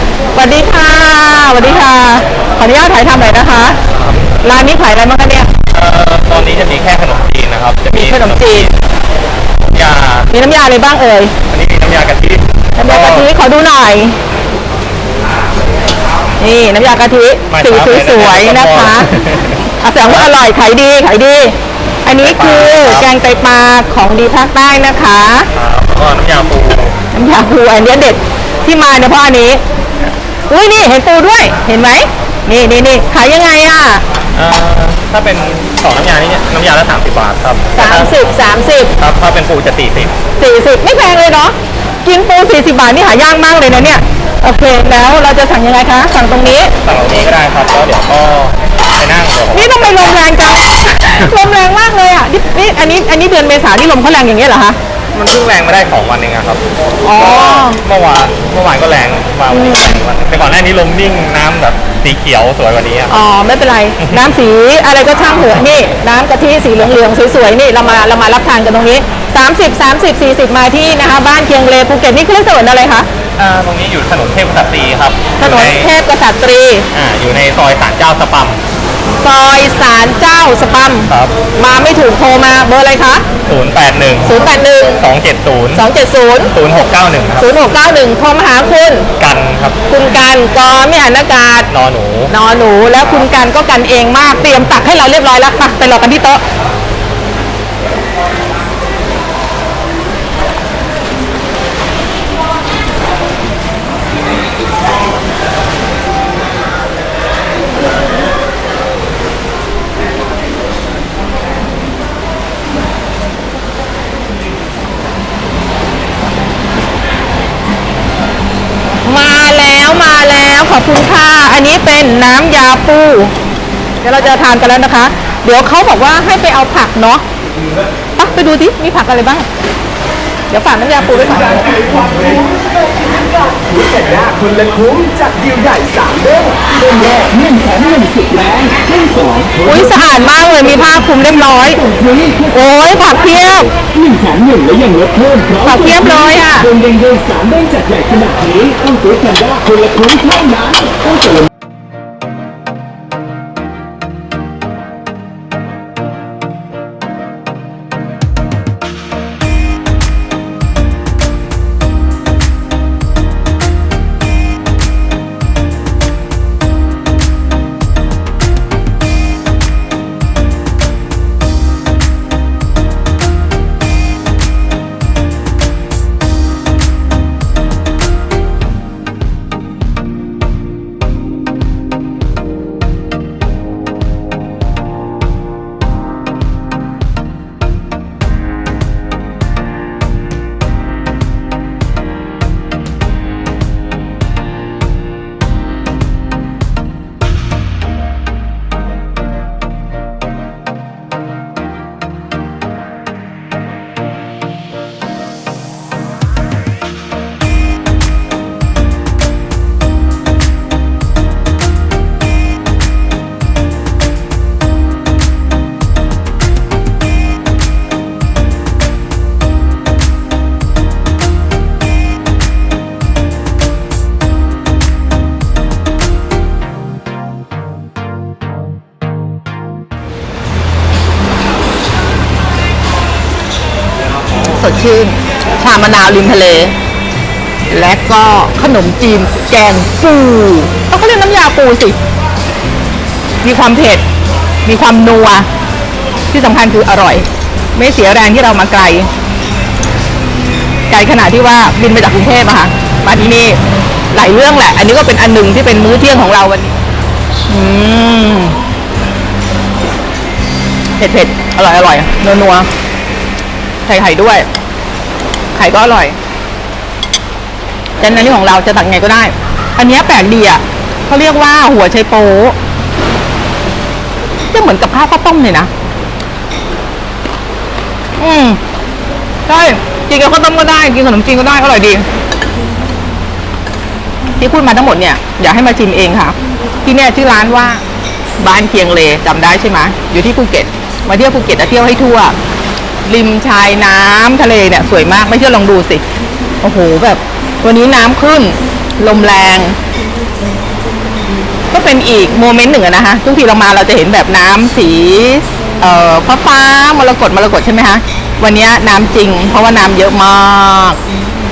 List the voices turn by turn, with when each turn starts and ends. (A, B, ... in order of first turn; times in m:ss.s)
0:00.3-0:03.8 A
0:04.4-0:05.5 A
0:05.7-0:08.7 B
0:07.9-0:08.7 A
0:09.7-0:10.3 B
0:10.3-0:11.3 A
0:11.5-0:13.3 B
0:12.8-0:14.2 A
0:16.4-0:19.1 A
0:17.5-0:20.2 B
0:19.8-0:25.5 A
0:22.1-0:23.1 B
0:25.5-0:26.9 B
0:27.1-0:29.6 A
0:30.5-0:34.0 A
0:34.3-0:38.2 B
0:37.7-0:38.9 A
0:39.0-0:40.1 B
0:40.4-0:46.7 A
0:46.8-0:49.8 B
0:49.5-0:54.8 A
0:55.1-1:03.2 B
0:57.0-0:57.8 A
0:59.5-1:00.0 A
1:03.1-1:13.1 A
1:13.4-1:15.9 B
1:15.4-1:16.9 A
1:16.9-1:18.6 B
1:19.2-1:23.2 A
1:21.1-1:21.3 B
1:23.5-1:24.4 B
1:24.2-1:25.0 A
1:25.0-1:25.8 B
1:25.7-1:26.5 A
1:26.5-1:27.5 B
1:27.4-1:29.1 A
1:29.2-1:29.8 B
1:29.9-1:31.7 A
1:31.7-1:32.3 B
1:32.3-1:36.4 A
1:33.0-1:33.3 B
1:59.0-2:03.3 A
2:04.0-2:07.2 A
2:08.2-2:09.5 A
2:10.5-2:11.8 A
2:14.1-2:19.6 C
2:19.6-2:23.7 A
2:24.0-2:25.5 C
2:25.5-2:26.8 A
2:26.8-2:30.7 C
3:54.5-3:56.7 A
3:57.7-4:02.0 A
4:03.4-4:04.0 A
4:04.6-4:05.5 A
4:06.3-4:09.1 A
4:10.9-4:13.6 A
4:14.1-4:16.7 A
4:17.5-4:18.6 A
4:21.0-4:22.7 A
4:23.8-4:24.5 A
4:25.5-4:26.2 A
4:28.0-4:32.6 A
4:34.5-4:35.7 A
4:38.2-4:38.6 A
4:39.5-4:42.0 A
4:44.4-4:47.8 A
4:48.4-4:52.4 A
4:53.0-4:56.0 A
4:56.6-4:59.8 A
5:01.7-5:11.0 A